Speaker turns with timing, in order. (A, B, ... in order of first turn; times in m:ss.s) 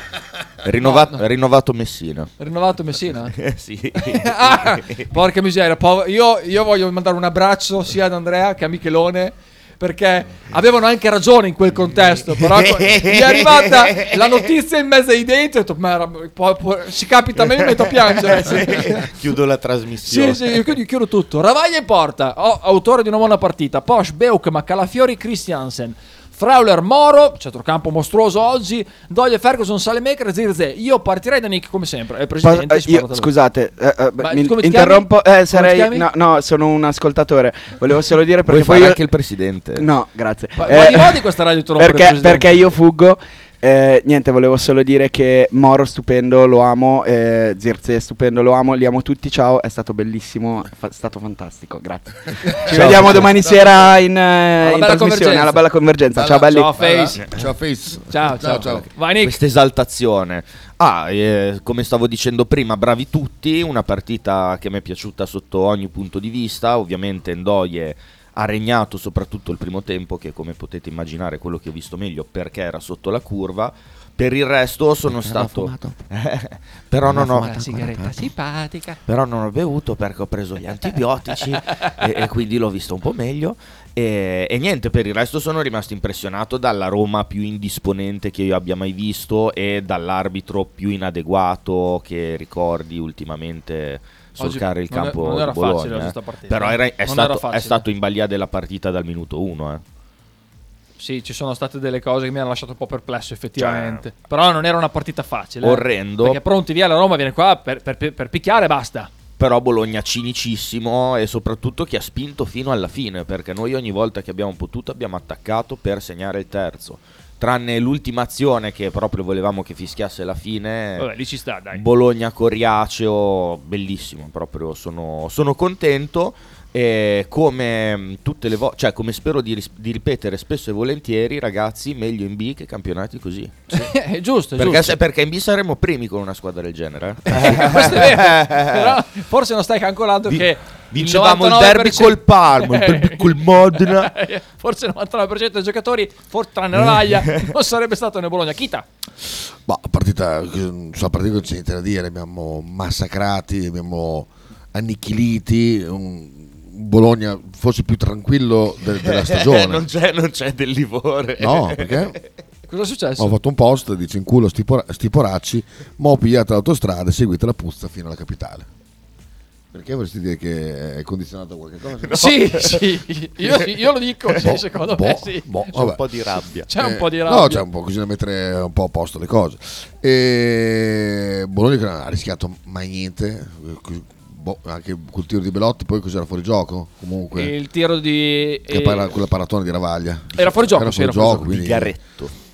0:00.6-0:02.3 A
0:00.8-0:01.2 B
0:02.4-0:03.4 B
0:03.3-0:05.1 A
0:03.9-0:19.1 B
0:12.4-0:14.4 A
0:18.0-0:20.7 A
0:20.0-0:33.3 B
0:32.4-0:39.0 C
0:34.2-0:36.0 B
0:38.4-0:39.9 A
0:39.8-0:41.2 C
0:40.6-0:42.6 B
0:41.8-0:56.7 C
0:52.5-0:53.7 D
0:52.7-0:53.2 A
0:54.6-0:55.6 B
0:56.1-0:58.9 D
0:56.3-0:57.2 B
0:58.1-0:59.4 B
0:59.2-1:17.7 A
1:15.1-1:16.0 D
1:17.0-1:18.2 D
1:17.2-1:19.0 B
1:19.1-1:39.8 A
1:34.4-1:37.8 B
1:41.0-1:49.1 B
1:43.6-1:44.0 A
1:45.6-1:46.4 A
1:49.4-2:01.1 A
2:01.0-2:01.8 B
2:01.7-2:13.8 A
2:13.7-2:15.0 B
2:14.6-2:19.0 A
2:17.3-2:28.8 B
2:20.3-2:24.1 A
2:29.6-2:39.9 D
2:39.0-2:42.2 A
2:41.4-2:42.2 D
2:42.7-2:43.4 B
2:43.2-2:48.7 D
2:49.7-2:52.2 D
2:52.0-2:52.8 A
2:52.1-2:55.7 B
2:54.3-2:56.0 D
2:55.7-2:56.7 A
2:56.7-2:57.6 B
2:56.7-3:07.5 D
3:07.3-3:09.2 B
3:08.7-3:12.0 D
3:10.4-3:11.5 B
3:11.5-3:12.3 A